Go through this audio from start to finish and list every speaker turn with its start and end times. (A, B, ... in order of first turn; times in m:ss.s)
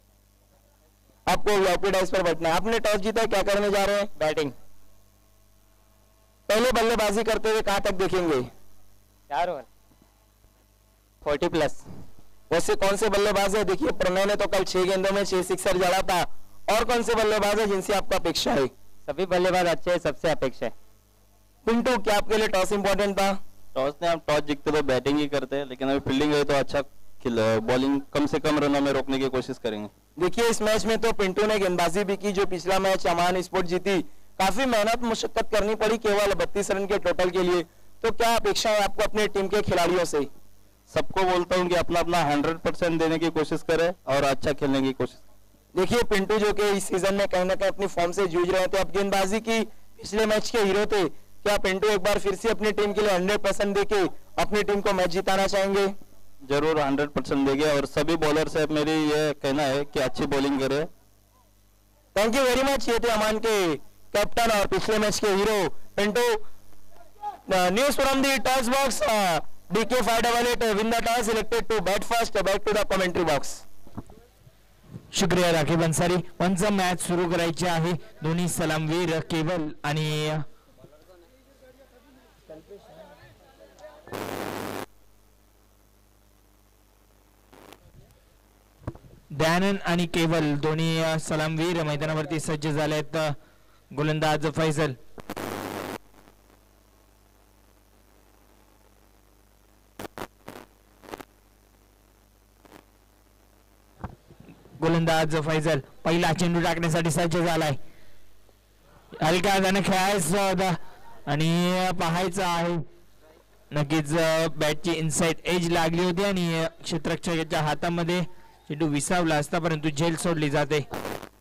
0:01.3-0:04.1 A
0:04.2-0:04.5 B
0:06.5-0:08.5 A
0:09.3-0:09.6 B
0:11.2-0:11.8 B
0:12.5-0:18.7 A
0:19.1-0:20.7 B
0:21.6-0:23.4 A
0:23.7-0:29.9 C
0:30.2-0:40.3 A
0:40.9-0:45.2 C
0:45.7-0:55.9 A
0:56.4-1:00.9 C
1:02.1-1:06.4 A
1:07.5-1:13.6 A
1:15.1-1:20.4 D
1:29.3-1:33.4 D
1:33.9-1:35.0 D
1:44.8-1:47.8 D
1:49.2-1:52.8 D
1:53.7-2:00.8 D